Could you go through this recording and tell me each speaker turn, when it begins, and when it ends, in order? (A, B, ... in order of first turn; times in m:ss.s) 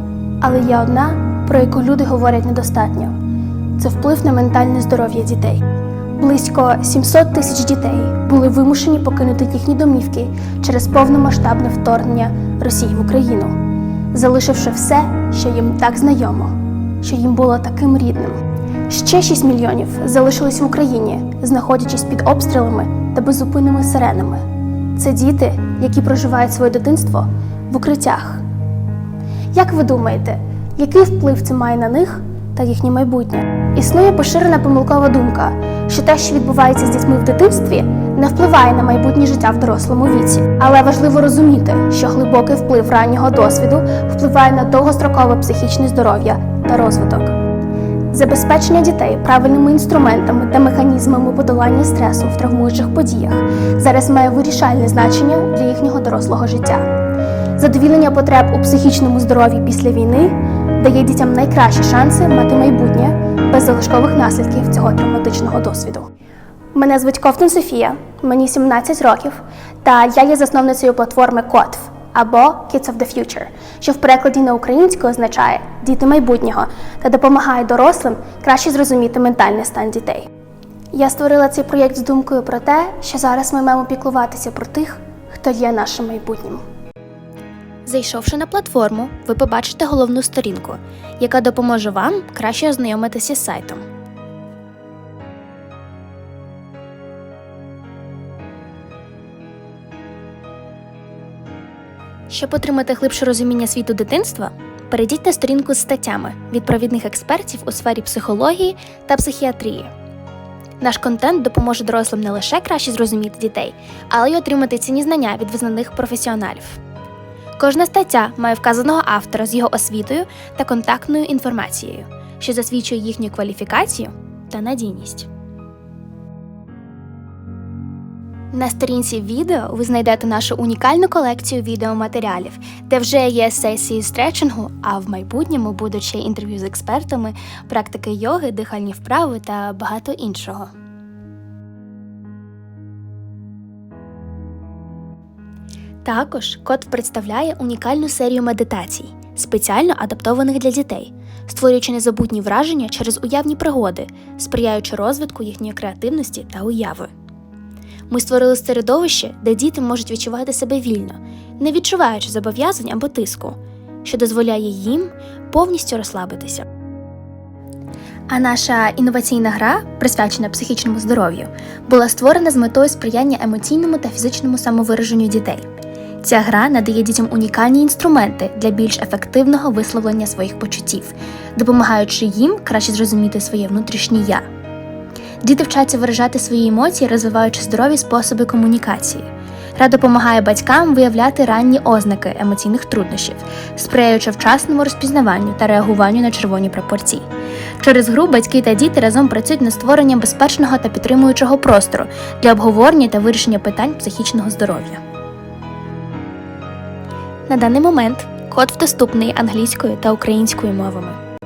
0:00.4-0:03.1 A
0:03.8-0:05.6 A
0:06.2-0:13.6 A
0:14.1-0:24.4 A
0:24.9-0:28.4 A
0:29.5-0:47.4 A
0:48.1-0:56.8 A
0:57.6-1:06.1 A
1:06.7-1:20.3 A
1:20.9-1:26.6 A
1:27.9-1:33.8 B
1:29.1-1:30.7 A
1:31.9-1:32.3 A
1:42.3-1:49.8 B
1:43.6-1:44.0 A
1:44.9-1:46.5 A
1:47.1-1:49.2 A
1:50.8-1:56.8 B
1:52.8-1:53.1 A
1:55.2-1:56.1 A
1:57.6-2:05.3 B
2:08.6-2:20.7 B
2:10.0-2:10.7 A
2:12.4-2:12.8 A
2:26.0-2:37.0 B
2:29.1-2:31.7 A
2:32.9-2:34.7 A
2:35.3-2:36.6 A
2:38.1-2:43.5 B
2:44.0-2:46.6 B
2:48.3-2:55.6 B
2:49.9-2:50.9 A
2:51.9-2:54.4 A
2:55.2-2:55.6 A
2:56.2-3:01.1 B
2:58.4-3:00.0 A
3:01.7-3:04.4 B
3:03.0-3:04.1 A
3:05.5-3:09.2 B
3:09.8-3:17.2 B
3:13.2-3:14.4 A
3:17.8-3:25.0 B
3:27.5-3:31.2 B
3:28.2-3:28.5 A